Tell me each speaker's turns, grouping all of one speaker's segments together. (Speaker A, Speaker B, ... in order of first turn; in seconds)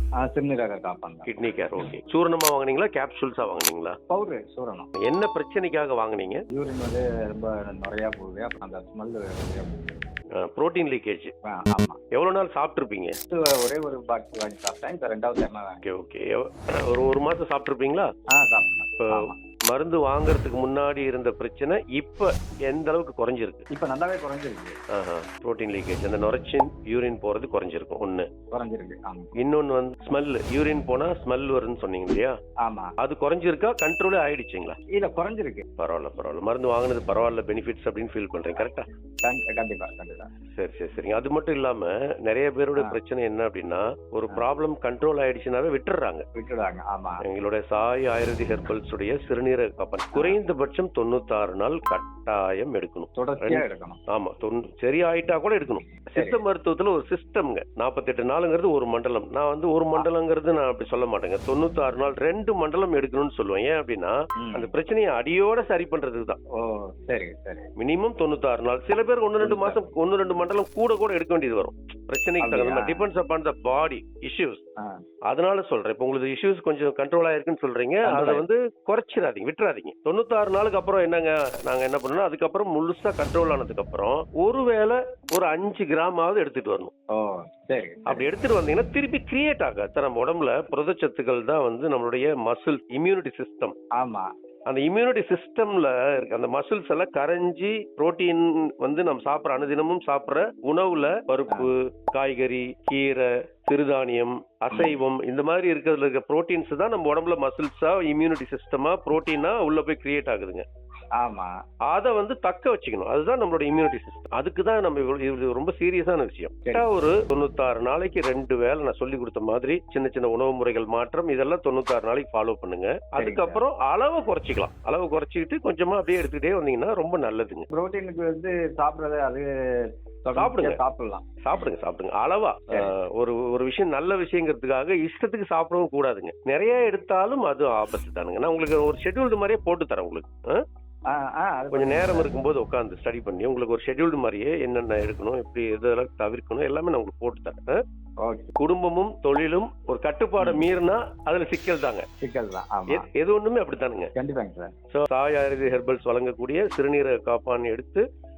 Speaker A: 0.2-1.4, 4.1-4.9, 6.5-10.1, 11.4-12.0, 13.3-15.8, 18.3-19.4, 23.7-24.8, 28.5-29.3, 32.6-32.9, 34.9-35.6, 39.2-40.3, 46.4-47.2, 53.1-54.0, 56.0-56.4, 64.4-64.7, 66.6-67.7, 69.4-69.8, 72.4-73.1, 78.0-78.5, 87.1-88.3, 94.0-94.3, 104.7-105.0, 111.2-111.5, 123.2-123.6, 127.7-129.5, 130.2-131.7, 132.7-132.9, 141.1-142.3, 148.2-148.5, 150.4-150.7, 152.2-153.1, 154.2-154.7
Speaker B: 1.3-4.0, 5.0-6.4, 10.4-11.3, 12.1-13.1, 15.8-18.1, 19.0-23.6, 24.9-28.3, 29.4-32.3, 33.0-34.8, 35.8-38.8, 40.5-46.2, 47.2-66.4, 67.8-74.6, 75.3-86.9, 88.1-93.8, 94.7-110.6, 111.9-127.7, 130.3-130.8, 131.4-140.6, 141.7-147.8, 148.6-152.1, 152.9-154.1, 154.9-158.0